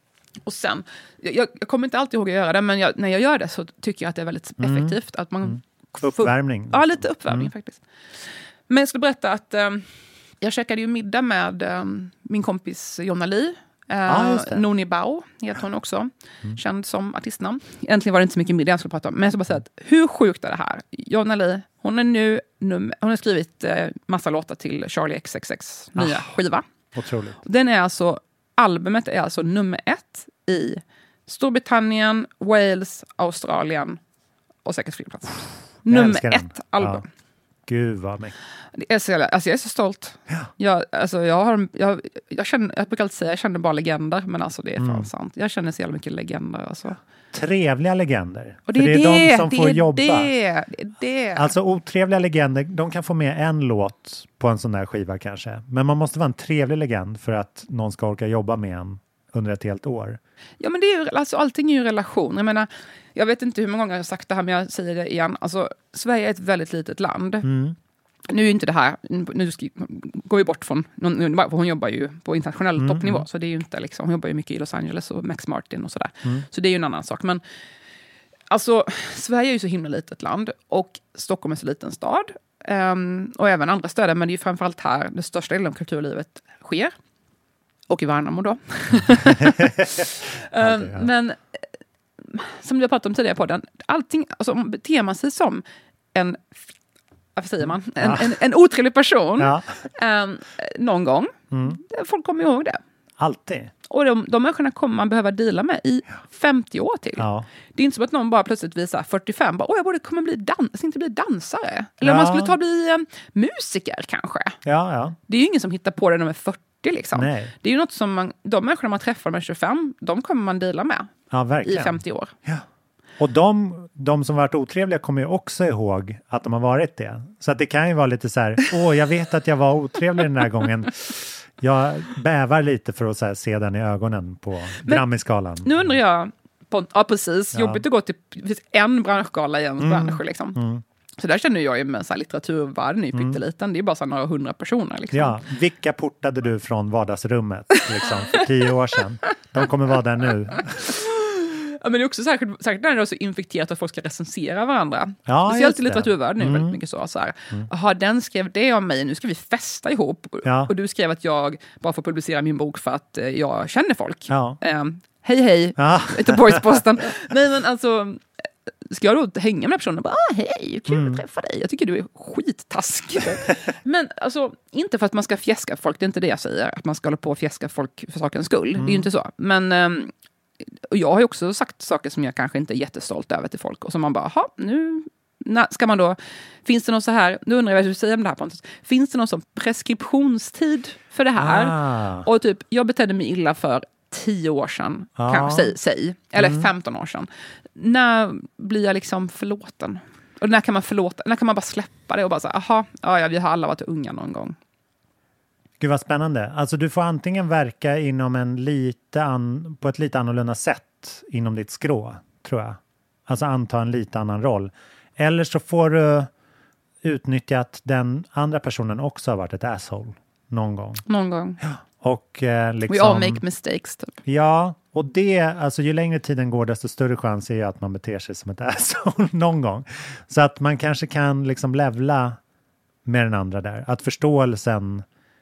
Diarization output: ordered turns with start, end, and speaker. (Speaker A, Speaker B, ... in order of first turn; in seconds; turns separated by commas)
Speaker A: 0.4-9.9, Speaker B: 4.6-7.5, Speaker A: 10.4-26.6, Speaker B: 14.1-14.7, Speaker B: 25.9-26.3, Speaker B: 26.9-27.4, Speaker A: 27.4-34.0, Speaker A: 34.6-37.0, Speaker B: 35.9-37.0, Speaker B: 37.7-38.4, Speaker A: 38.8-47.0, Speaker B: 44.8-45.1, Speaker B: 47.3-50.3, Speaker A: 48.7-51.5, Speaker B: 51.3-60.2, Speaker A: 60.6-67.5, Speaker B: 67.4-67.8, Speaker A: 68.3-77.4, Speaker B: 72.8-73.2, Speaker A: 78.5-86.9, Speaker A: 87.9-91.4, Speaker B: 89.1-91.1, Speaker A: 92.2-96.6, Speaker A: 97.3-102.8, Speaker B: 98.0-98.4, Speaker B: 99.4-99.9, Speaker B: 101.5-101.8, Speaker B: 103.2-103.7, Speaker A: 103.9-114.6, Speaker B: 107.2-107.5, Speaker B: 112.0-112.5, Speaker B: 114.6-115.2, Speaker A: 115.3-121.1, Speaker B: 117.1-117.5, Speaker B: 121.3-122.6, Speaker A: 121.6-122.3, Speaker B: 123.2-135.9, Speaker A: 135.6-140.6, Speaker B: 137.5-137.8, Speaker B: 139.8-140.8, Speaker A: 141.2-145.4, Speaker B: 143.1-143.4, Speaker B: 145.1-150.9, Speaker A: 147.8-148.4, Speaker A: 150.8-168.2, Speaker B: 155.3-156.8, Speaker B: 160.4-160.7, Speaker B: 164.3-164.6, Speaker B: 165.8-166.8, Speaker A: 168.9-180.1, Speaker B: 170.9-171.2, Speaker B: 178.8-179.1, Speaker A: 180.9-204.6, Speaker B: 191.3-192.2, Speaker B: 195.2-195.7, Speaker B: 196.3-196.7, Speaker B: 205.8-216.3, Speaker B: 217.0-221.0, Speaker A: 221.1-221.6, Speaker B: 221.6-223.4, Speaker A: 222.9-224.2, Speaker B: 224.2-232.4, Speaker B: 233.1-235.0